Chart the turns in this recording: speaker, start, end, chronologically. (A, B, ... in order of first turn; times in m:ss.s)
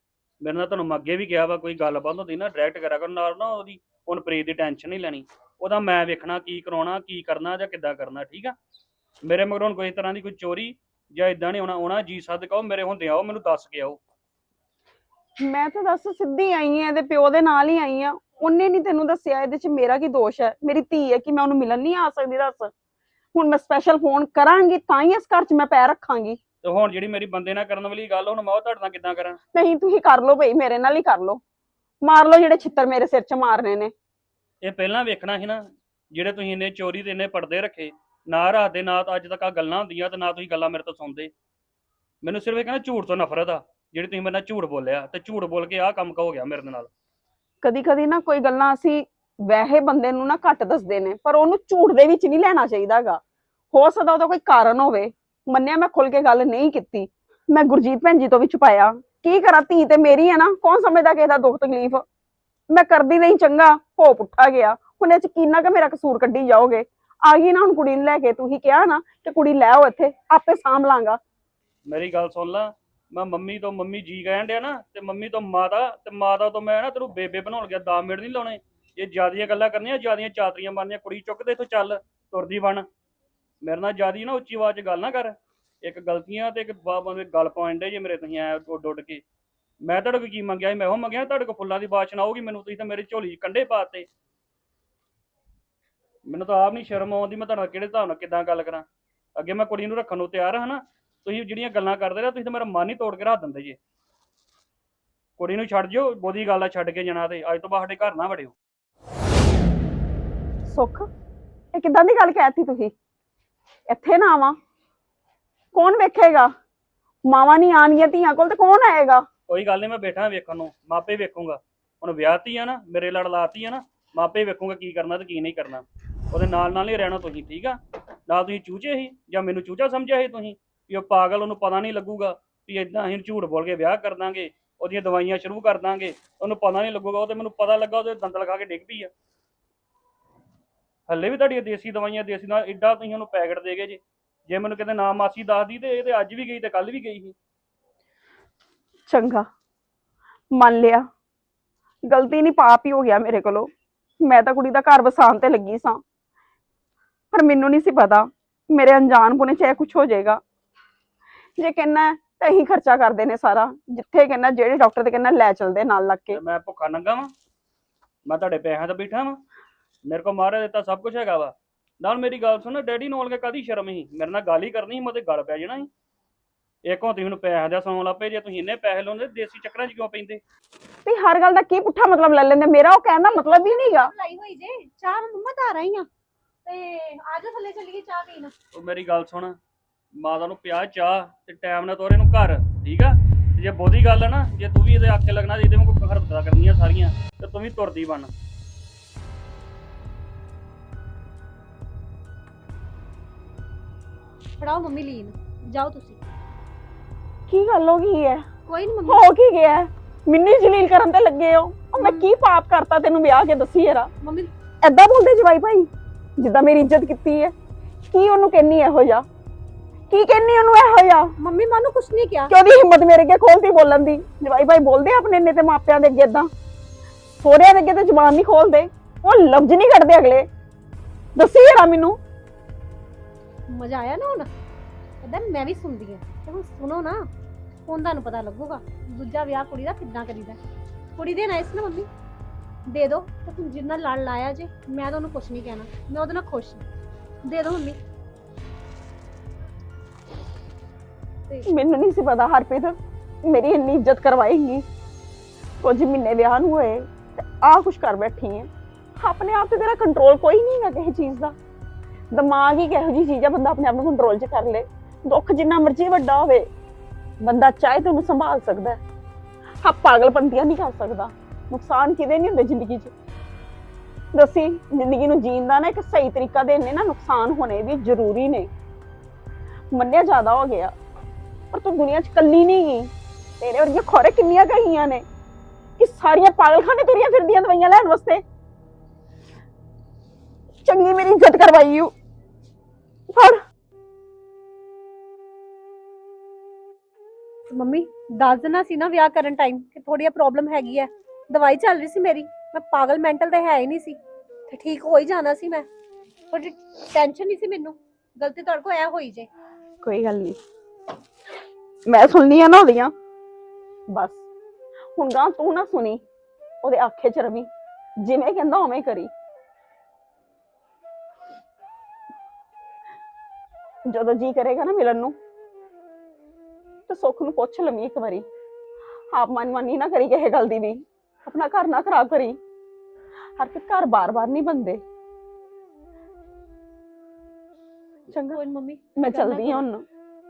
0:00.4-0:08.6 A
0:09.2-0:14.0 A
0:15.4-0:22.7 B
0:23.3-0:26.4 B
0:26.6-0:29.4 A
0:29.5-0:31.4 B
0:32.0-0:33.9 B
0:34.6-0:41.3 A
0:42.2-0:46.9 A
0:47.6-0:53.2 B
0:53.7-1:02.0 B
1:02.7-1:11.2 B
1:11.9-1:22.9 A
1:23.6-1:29.2 A
1:29.8-1:34.1 A
1:36.3-1:38.9 A
1:39.4-1:43.8 A
1:45.4-1:48.6 A
1:50.7-1:51.1 B
1:51.7-1:52.9 B
1:53.9-1:54.6 B
1:55.7-1:56.5 B
1:57.2-1:59.3 B
1:59.5-2:19.1 A
2:21.1-2:27.4 A
2:29.1-2:29.5 B
2:30.5-2:31.1 B
2:32.1-2:33.7 B
2:34.2-2:36.0 B
2:37.3-2:40.4 B
2:41.6-2:46.4 B
2:46.3-2:47.3 A
2:48.3-2:49.4 A
2:50.0-2:55.9 A
2:56.8-3:00.4 A
3:01.1-3:04.1 B
3:03.3-3:06.1 C
3:06.7-3:08.5 C
3:08.7-3:09.6 A
3:10.2-3:18.3 A
3:24.6-3:26.2 C
3:27.5-3:28.5 B
3:28.7-3:29.3 C
3:29.1-3:34.1 B
3:32.0-3:32.3 C
3:34.2-3:34.5 C
3:34.8-3:37.5 B
3:38.1-3:39.3 B
3:40.1-3:41.3 B
3:41.4-3:42.5 C
3:42.5-3:46.5 B
3:47.4-3:50.5 B
3:51.4-3:52.2 B
3:53.7-3:54.5 C
3:55.2-3:57.3 C
3:57.9-4:00.6 C
4:01.2-4:02.1 C
4:02.9-4:06.8 C
4:07.5-4:08.0 C
4:11.7-4:14.9 B
4:15.8-4:21.6 B
4:22.3-4:26.7 B
4:27.4-4:29.0 B
4:29.8-4:33.1 B
4:34.3-4:38.7 B
4:39.9-4:40.9 B
4:41.7-4:45.3 B
4:46.0-4:48.4 B
4:50.8-4:52.1 B
4:53.3-4:53.6 B
4:57.8-5:04.2 C
5:04.7-5:05.9 C
5:06.5-5:09.5 C
5:10.0-5:10.6 B
5:12.1-5:13.1 B
5:14.1-5:14.5 B
5:15.2-5:16.2 B
5:16.8-5:17.7 B
5:18.2-5:19.3 B
5:24.1-5:25.4 B
5:27.1-5:28.5 B
5:29.3-5:32.6 B
5:33.6-5:35.0 B
5:38.3-5:39.9 C
5:38.3-5:38.6 B
5:39.2-5:40.1 B